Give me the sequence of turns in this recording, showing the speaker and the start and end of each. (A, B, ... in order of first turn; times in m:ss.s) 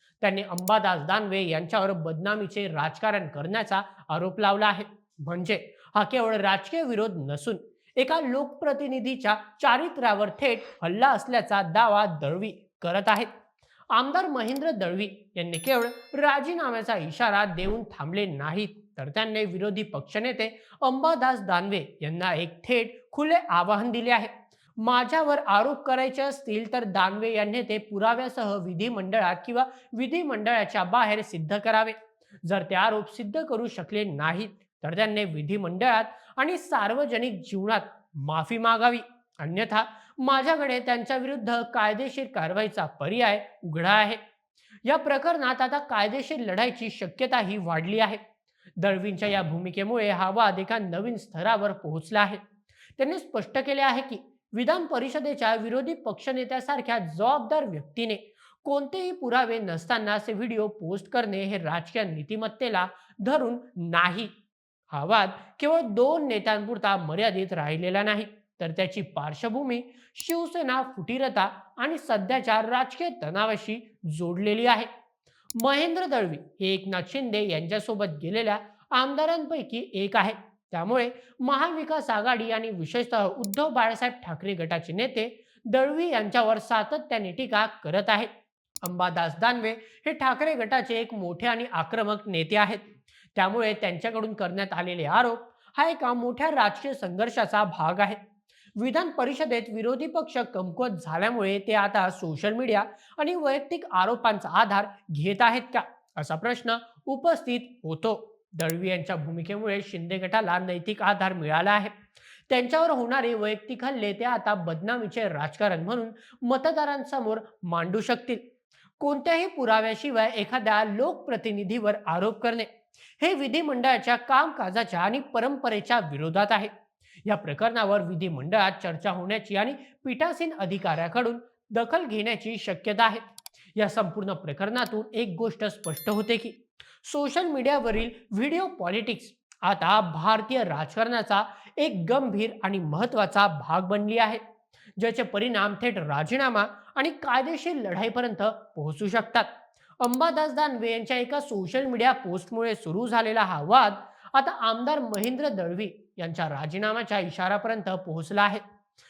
0:00.2-0:13.3 A
0:13.9-0:44.2 A
0:44.8-0:48.2 A
0:48.8-0:52.4 A
0:53.0-1:04.3 A
1:04.9-1:14.9 A
1:15.5-1:28.3 A
1:28.8-1:38.2 A
1:38.8-1:51.9 A
1:52.5-1:58.4 A
1:59.0-2:06.7 A
2:07.2-2:13.2 A
2:13.7-2:24.4 A
2:25.0-2:38.6 A